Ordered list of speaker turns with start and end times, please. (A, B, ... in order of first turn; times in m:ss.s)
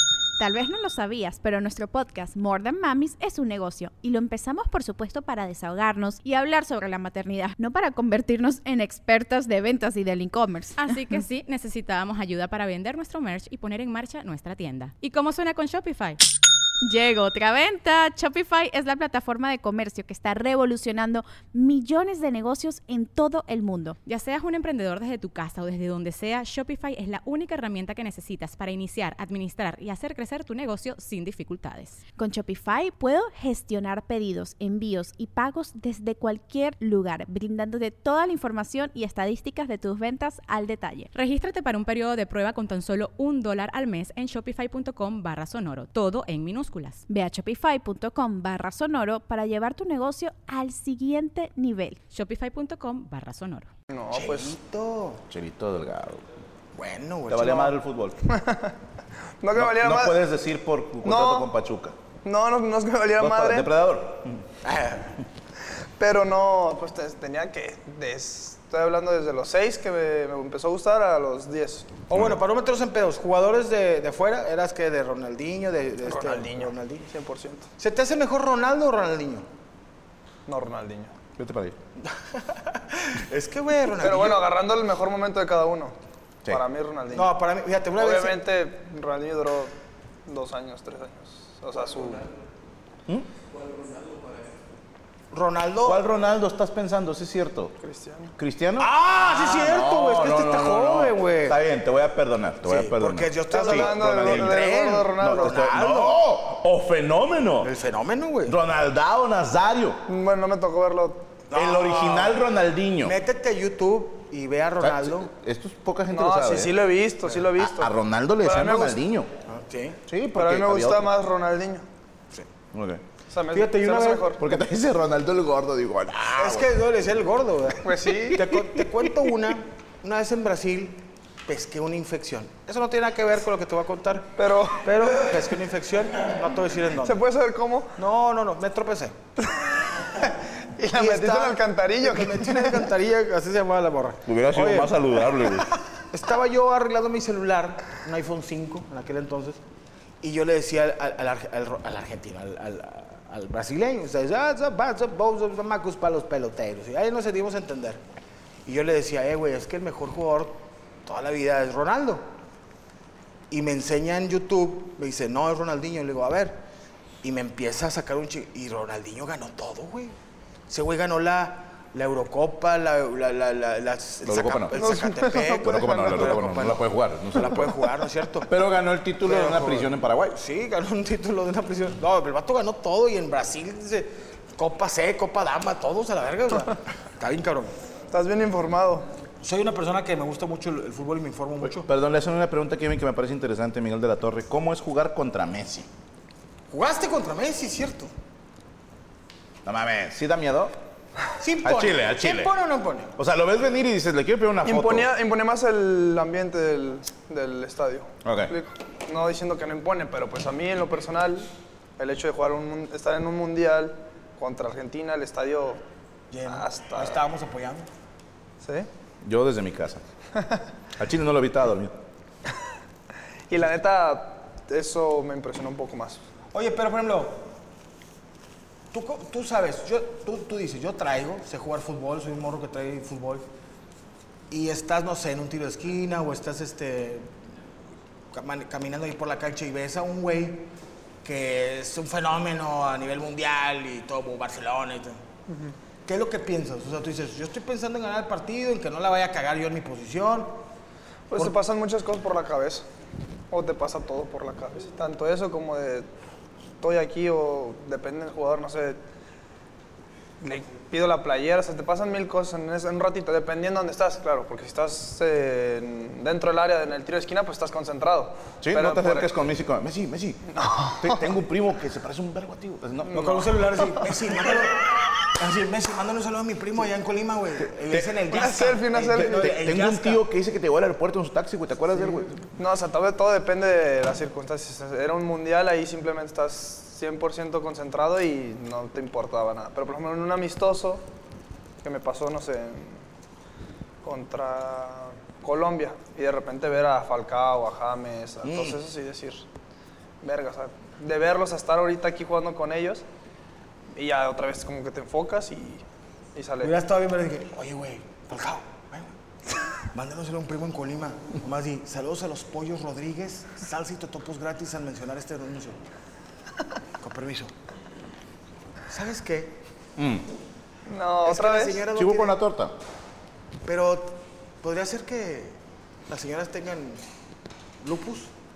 0:00.4-0:10.9 A
0:10.8-0:16.2 B
0:16.8-0:24.0 A
0:24.0-0:32.0 B
0:32.2-0:41.1 A
0:41.1-0:47.0 B
0:47.1-0:52.0 A
0:52.1-0:53.7 B
0:53.9-0:54.6 C
0:54.1-0:55.2 D
0:55.3-0:56.2 E
0:56.7-0:57.7 D
0:57.3-0:58.2 E
0:58.3-0:58.8 C
0:59.4-1:00.2 C
0:59.6-1:02.0 E
1:01.0-1:01.5 C
1:02.2-1:03.7 C
1:03.2-1:04.4 E
1:04.6-1:05.2 D
1:06.0-1:11.9 C
1:12.1-1:17.1 D
1:16.0-1:17.7 C
1:17.8-1:19.4 D
1:20.5-1:21.1 C
1:21.4-1:21.8 E
1:22.0-1:24.5 D
1:24.0-1:25.9 C
1:26.5-1:27.3 C
1:27.1-1:28.4 D
1:28.0-1:29.7 C
1:30.3-1:32.3 C
1:35.3-1:36.0 D
1:35.8-1:37.7 E
1:37.8-1:38.3 C
1:38.4-1:47.7 E
1:38.8-1:41.6 D
1:42.6-1:46.2 D
1:43.5-1:45.8 C
1:47.6-1:48.6 D
1:48.4-1:50.0 E
1:50.1-1:51.2 C
1:51.5-1:52.4 D
1:51.5-1:53.2 E
1:53.0-1:55.3 D
1:54.8-1:56.8 E
1:56.1-1:59.0 C
1:57.6-1:59.3 E
1:59.5-2:00.0 D
2:00.1-2:01.1 E
2:00.3-2:01.8 C
2:02.7-2:03.0 E
2:03.3-2:04.4 C
2:03.5-2:04.3 D
2:04.4-2:06.8 E
2:06.4-2:14.3 D
2:07.8-2:08.4 C
2:08.5-2:08.8 E
2:14.4-2:15.4 C
2:14.8-2:17.2 D
2:17.0-2:18.0 C
2:18.0-2:19.2 D
2:20.2-2:22.9 C
2:20.9-2:25.0 D
2:24.3-2:25.7 E
2:26.1-2:29.6 D
2:30.2-2:38.0 D
2:38.7-2:42.2 D
2:43.5-2:46.6 D
2:47.2-2:50.2 D
2:50.7-2:58.5 D
2:54.3-2:54.8 E
2:54.8-2:56.6 C
2:55.6-2:57.8 E
2:58.5-3:00.4 E
2:59.2-3:07.7 D
3:08.1-3:09.1 C
3:09.4-3:11.9 D
3:11.8-3:15.9 E
3:16.7-3:18.1 D
3:19.6-3:20.7 E
3:21.4-3:23.1 D
3:21.6-3:22.5 E
3:23.2-3:25.1 E
3:24.6-3:35.8 C
3:28.2-3:28.5 E
3:36.3-3:37.9 D
3:36.5-3:37.2 C
3:38.6-3:38.9 C
3:39.2-3:40.0 E
3:41.0-3:42.0 E
3:43.5-3:46.2 C
3:46.5-3:47.5 D
3:48.9-3:53.4 D
3:54.5-3:57.3 D
3:58.3-4:00.7 D
4:01.2-4:05.2 D
4:05.5-4:05.7 C
4:06.0-4:10.6 D
4:11.3-4:12.9 C
4:13.5-4:16.1 C
4:16.8-4:19.0 C
4:20.4-4:29.3 C
4:28.6-4:30.4 E
4:30.5-4:31.2 C
4:31.0-4:33.6 E
4:33.1-4:33.4 C
4:33.1-4:40.2 D
4:37.8-4:38.1 E
4:38.3-4:39.5 C
4:39.1-4:42.5 E
4:42.6-4:51.0 C
4:51.8-4:53.0 C
4:54.0-4:59.4 C
4:58.4-4:58.8 E
5:00.2-5:03.0 C
5:03.9-5:05.8 C
5:06.3-5:06.8 C
5:06.6-5:09.1 D
5:09.9-5:15.8 D
5:17.0-5:17.5 D
5:18.9-5:19.6 D
5:20.0-5:20.2 E
5:20.9-5:21.8 C
5:21.2-5:22.4 D
5:21.9-5:22.8 E
5:23.6-5:25.6 D
5:26.1-5:27.0 D
5:27.8-5:28.3 D